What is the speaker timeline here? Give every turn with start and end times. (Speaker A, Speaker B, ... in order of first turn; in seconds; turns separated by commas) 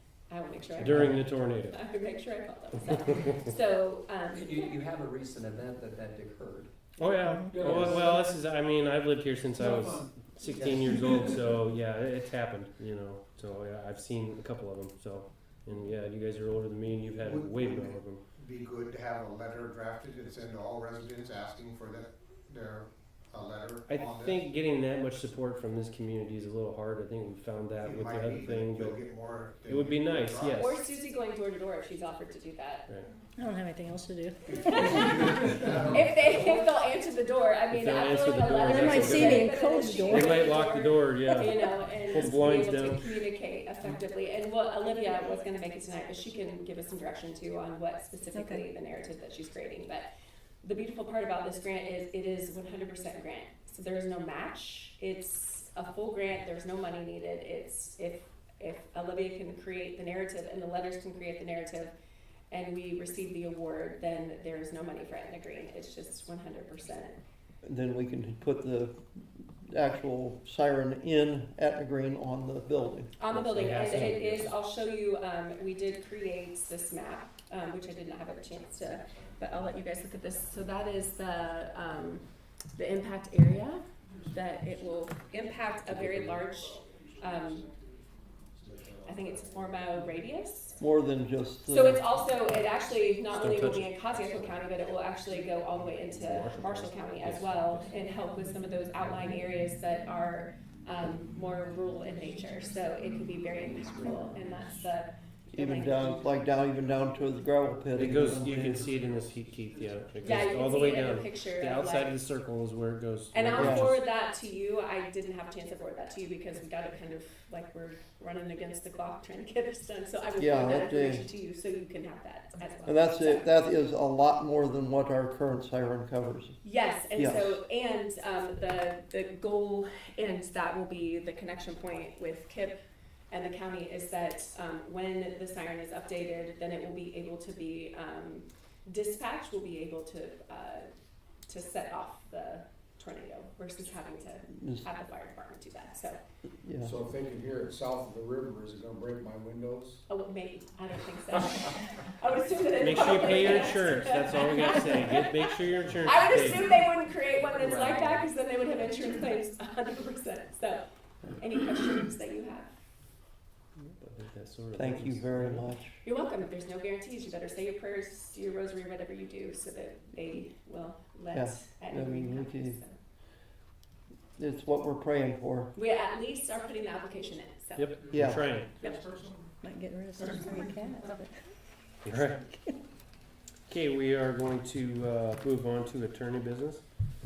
Speaker A: 0.3-4.7, Speaker B: 0.8-1.8, Speaker C: 0.8-1.1, Speaker D: 4.3-6.7, Speaker B: 7.0-18.2, Speaker E: 7.2-7.7, Speaker F: 7.5-8.2, Speaker D: 7.6-8.0, Speaker D: 10.4-10.9, Speaker G: 17.2-24.4, Speaker B: 23.9-29.0, Speaker G: 27.8-30.6, Speaker B: 29.7-30.8, Speaker A: 30.5-32.9, Speaker E: 33.4-35.5, Speaker A: 34.5-50.1, Speaker G: 34.8-36.3, Speaker B: 37.7-43.1, Speaker E: 38.6-40.5, Speaker E: 41.3-41.5, Speaker E: 48.3-48.7, Speaker A: 50.6-61.9, Speaker A: 62.5-67.2, Speaker C: 67.6-73.1, Speaker A: 73.2-82.2, Speaker B: 73.3-74.5, Speaker A: 82.7-87.6, Speaker B: 85.9-86.4, Speaker G: 88.6-89.8, Speaker A: 89.0-90.8, Speaker C: 90.8-92.0, Speaker A: 91.7-106.3, Speaker B: 93.3-94.6, Speaker B: 95.8-97.8, Speaker C: 105.5-108.8, Speaker B: 107.9-114.0, Speaker A: 110.2-112.1, Speaker A: 113.3-123.5, Speaker C: 113.5-113.9, Speaker C: 120.4-121.2, Speaker C: 122.8-126.6, Speaker A: 126.6-132.7, Speaker C: 127.2-127.6, Speaker A: 133.3-140.8, Speaker A: 141.5-146.2, Speaker C: 144.6-144.8, Speaker C: 146.6-146.9, Speaker F: 146.8-150.0, Speaker A: 150.1-155.4, Speaker B: 152.8-156.7, Speaker A: 156.0-160.8, Speaker D: 157.5-158.2, Speaker A: 161.4-162.7, Speaker B: 163.8-165.6, Speaker C: 164.7-166.0, Speaker A: 166.0-172.9, Speaker C: 171.3-172.8, Speaker C: 174.4-175.7, Speaker A: 175.8-179.0, Speaker B: 177.8-178.7, Speaker C: 178.1-178.5, Speaker E: 179.6-181.4, Speaker B: 182.0-182.4, Speaker E: 182.4-182.8, Speaker B: 183.7-186.8